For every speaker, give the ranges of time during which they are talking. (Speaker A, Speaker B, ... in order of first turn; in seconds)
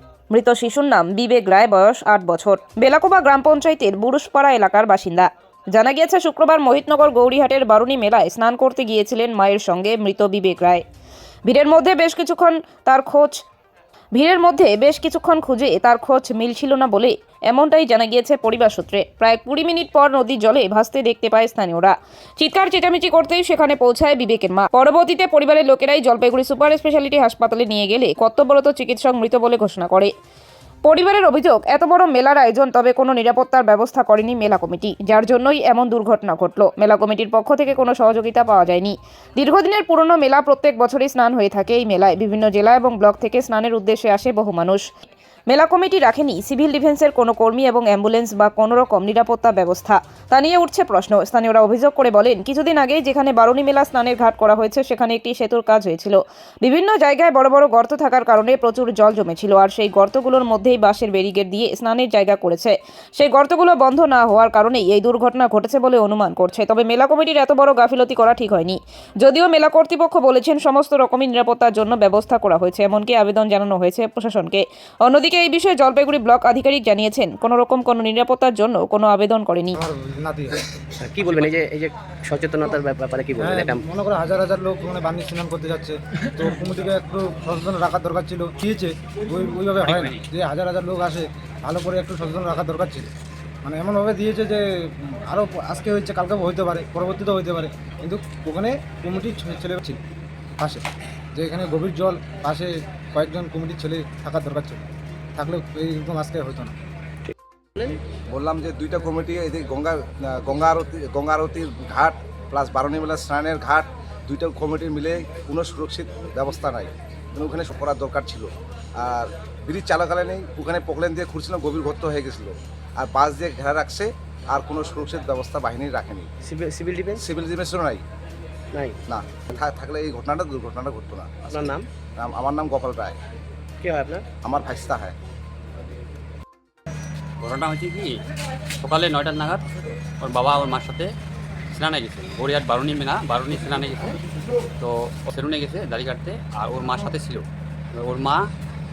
Speaker A: 0.3-10.8, 11.5-13.3, 14.2-30.1, 30.9-44.8, 45.5-79.8
Speaker B: 79.8-80.6, 83.4-93.1, 93.6-100.0, 101.3-104.8, 105.3-106.7
Speaker C: 81.0-83.8, 107.2-108.0, 126.4-127.2, 128.7-129.0, 131.5-131.8, 133.8-134.2
Speaker D: 89.8-90.2, 137.4-138.2, 138.8-139.6, 140.2-141.1, 141.7-144.2, 144.8-147.4, 148.0-148.4
Speaker E: 108.3-126.3, 127.2-128.0, 129.1-133.2, 134.4-135.1